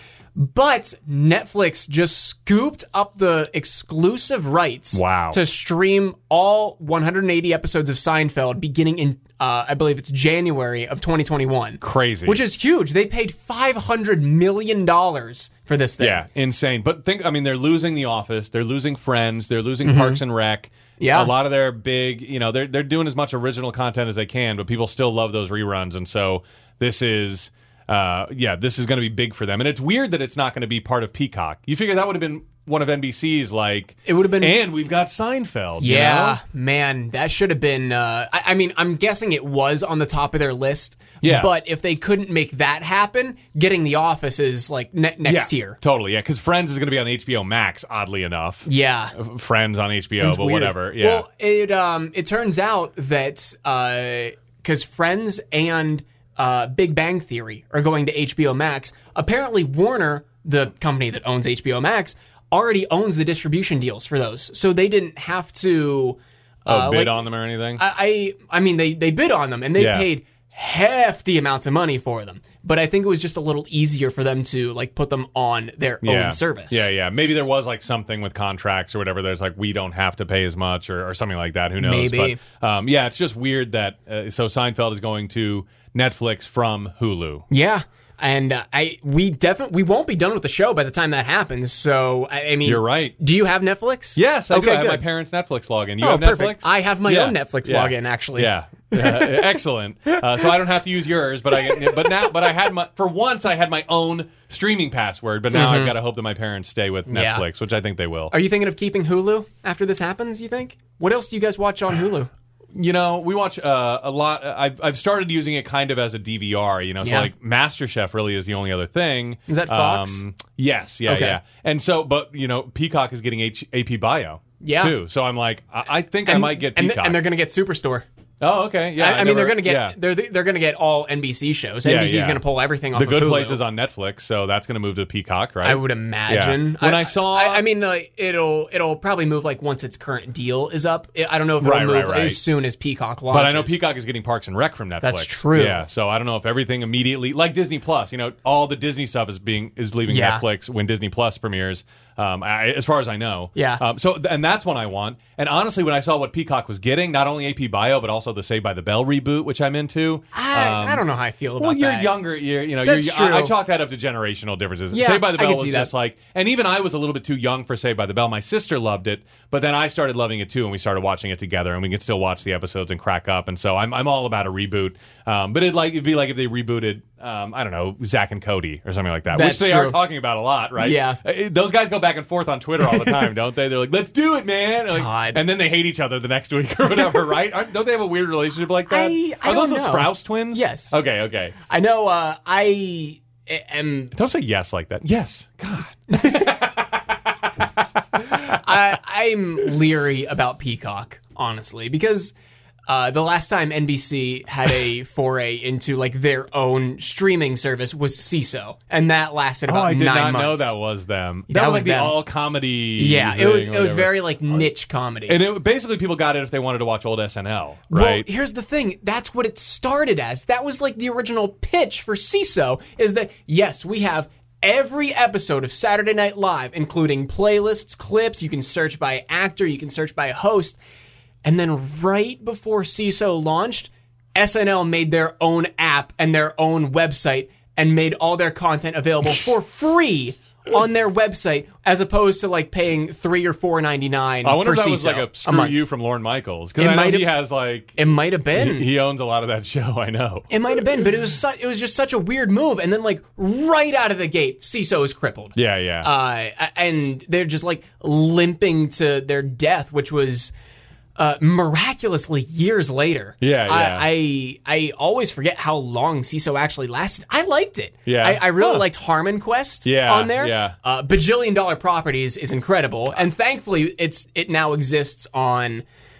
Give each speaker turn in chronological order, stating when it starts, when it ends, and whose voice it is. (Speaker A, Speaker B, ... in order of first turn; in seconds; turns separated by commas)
Speaker A: 0.3-16.2, Speaker B: 4.9-5.4, Speaker B: 11.8-12.4, Speaker B: 16.0-36.4, Speaker A: 19.8-20.2, Speaker A: 21.0-21.3, Speaker A: 34.0-34.6, Speaker A: 35.8-45.8, Speaker B: 41.2-41.5, Speaker B: 45.2-51.2, Speaker A: 48.6-49.1, Speaker A: 50.2-76.9, Speaker B: 66.7-67.8, Speaker B: 69.8-70.1, Speaker B: 76.0-87.4, Speaker A: 81.8-82.4, Speaker A: 87.5-95.0, Speaker B: 92.6-93.1, Speaker B: 94.2-108.3, Speaker A: 96.0-99.5, Speaker A: 100.1-100.5, Speaker A: 101.6-102.1, Speaker A: 105.5-106.0, Speaker A: 107.1-107.4, Speaker A: 108.3-112.3, Speaker B: 112.7-127.2, Speaker A: 117.0-117.3, Speaker A: 119.5-120.2, Speaker A: 121.0-121.4, Speaker A: 124.6-125.0, Speaker A: 126.2-128.1, Speaker B: 128.4-129.9, Speaker A: 129.0-133.6, Speaker B: 131.8-132.4, Speaker B: 132.9-137.6, Speaker A: 135.6-143.8, Speaker B: 141.6-142.4, Speaker B: 143.3-161.0, Speaker A: 145.0-145.8, Speaker A: 150.1-150.4, Speaker A: 153.5-153.8, Speaker A: 160.3-162.2, Speaker B: 161.6-191.5, Speaker A: 162.8-163.5, Speaker A: 164.9-165.9, Speaker A: 179.3-180.0, Speaker A: 180.8-181.2, Speaker A: 182.8-183.3, Speaker A: 184.9-185.4, Speaker A: 188.9-191.0, Speaker A: 191.6-194.1, Speaker B: 194.1-197.0, Speaker A: 196.1-196.6, Speaker B: 198.1-198.6, Speaker A: 198.2-202.3, Speaker A: 202.9-210.7, Speaker B: 209.7-214.7, Speaker A: 211.5-212.2, Speaker A: 213.0-215.4, Speaker B: 215.3-218.2, Speaker A: 217.9-230.8, Speaker A: 231.4-245.8, Speaker B: 244.4-248.0, Speaker A: 246.8-247.3, Speaker A: 247.9-248.9, Speaker B: 248.5-250.5, Speaker A: 250.5-260.5, Speaker B: 255.6-256.1, Speaker A: 261.1-275.8, Speaker B: 263.4-264.1, Speaker B: 268.1-268.9, Speaker B: 269.8-270.7